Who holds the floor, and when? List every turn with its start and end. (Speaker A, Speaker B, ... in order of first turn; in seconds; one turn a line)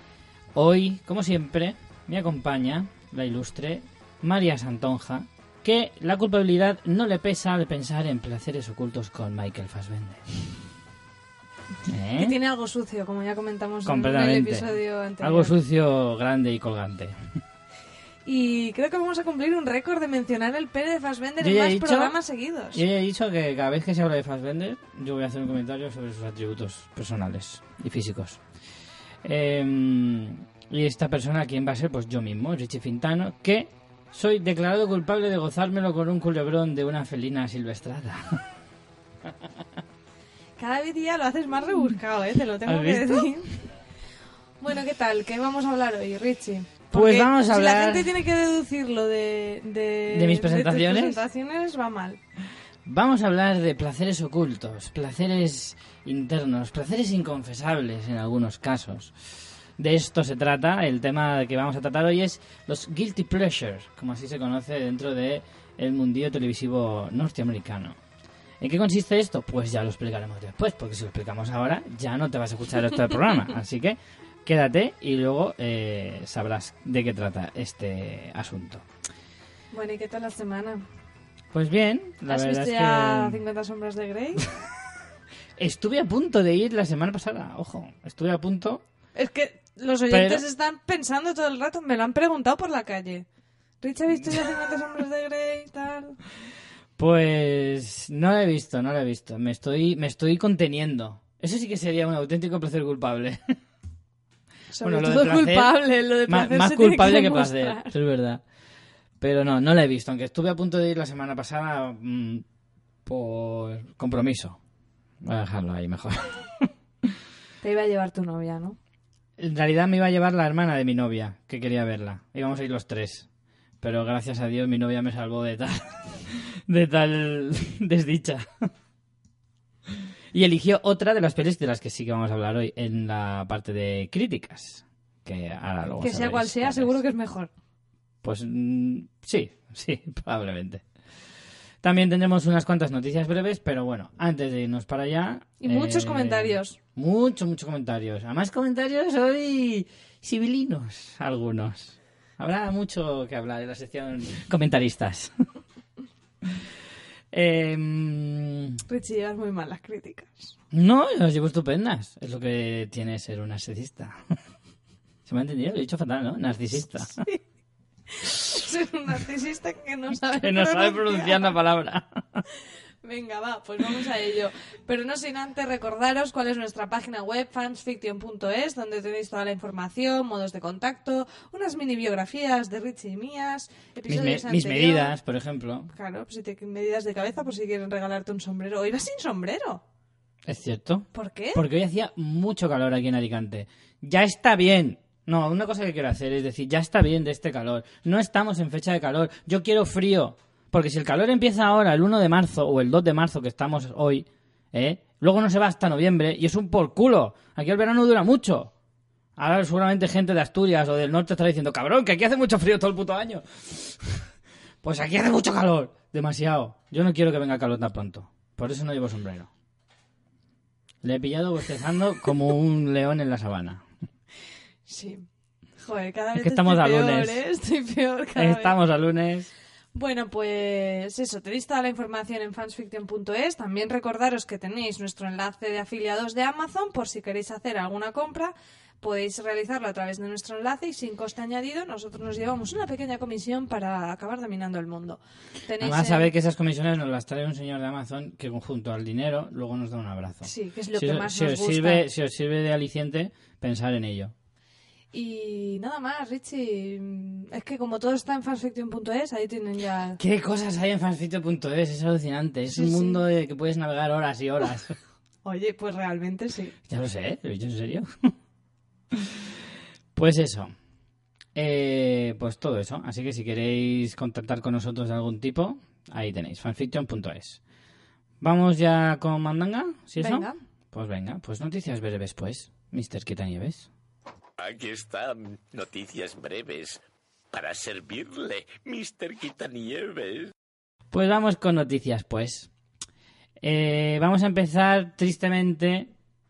Speaker A: 0.5-10.2
Speaker A: 11.8-12.4
Speaker B: 12.2-15.5
Speaker A: 13.8-17.2
Speaker B: 18.2-22.8
Speaker A: 21.4-22.1
Speaker A: 22.7-28.4
Speaker A: 29.2-38.4
Speaker B: 40.6-43.6
Speaker A: 42.6-43.3
Speaker B: 44.6-52.2
Speaker A: 46.9-48.2
Speaker A: 50.1-51.2
Speaker A: 52.9-59.1
Speaker A: 59.8-68.0
Speaker A: 68.6-78.8
Speaker B: 79.7-80.8
Speaker A: 81.5-83.4
Speaker B: 82.3-84.5
Speaker A: 85.6-88.8
Speaker B: 89.1-93.2
Speaker A: 90.1-90.4
Speaker B: 93.8-96.2
Speaker A: 97.0-103.5
Speaker B: 104.7-107.9
Speaker A: 104.8-105.7
Speaker A: 106.3-108.4
Speaker A: 109.2-112.4
Speaker A: 113.0-114.6
Speaker A: 115.2-116.7
Speaker B: 117.6-118.8
Speaker A: 119.4-123.3
Speaker A: 123.8-128.7
Speaker A: 130.3-137.0
Speaker B: 136.0-137.5
Speaker A: 138.2-140.8
Speaker A: 141.8-155.3
Speaker B: 145.6-146.8
Speaker A: 157.3-158.8
Speaker B: 158.9-160.6
Speaker A: 160.7-164.3
Speaker A: 165.2-167.2
Speaker B: 167.1-167.4
Speaker B: 168.1-171.5
Speaker A: 170.4-172.4
Speaker B: 173.0-185.1
Speaker A: 184.1-185.9
Speaker B: 185.9-189.8
Speaker A: 190.4-208.7
Speaker B: 191.1-191.6
Speaker A: 209.4-214.2
Speaker A: 214.8-219.5
Speaker A: 221.0-223.8
Speaker B: 224.9-225.2
Speaker B: 225.8-228.7
Speaker A: 226.4-227.4
Speaker A: 228.3-229.5
Speaker B: 229.9-246.3
Speaker A: 245.8-254.3
Speaker B: 250.4-252.0
Speaker B: 255.1-260.2
Speaker A: 260.2-265.0
Speaker B: 262.7-263.2
Speaker B: 265.4-266.7
Speaker A: 266.9-268.3
Speaker A: 269.1-269.4
Speaker A: 270.1-270.7
Speaker A: 271.5-277.6
Speaker A: 278.4-283.9
Speaker B: 280.2-280.6
Speaker C: 284.6-287.0
Speaker C: 287.5-290.5
Speaker A: 291.1-292.7
Speaker A: 293.6-296.1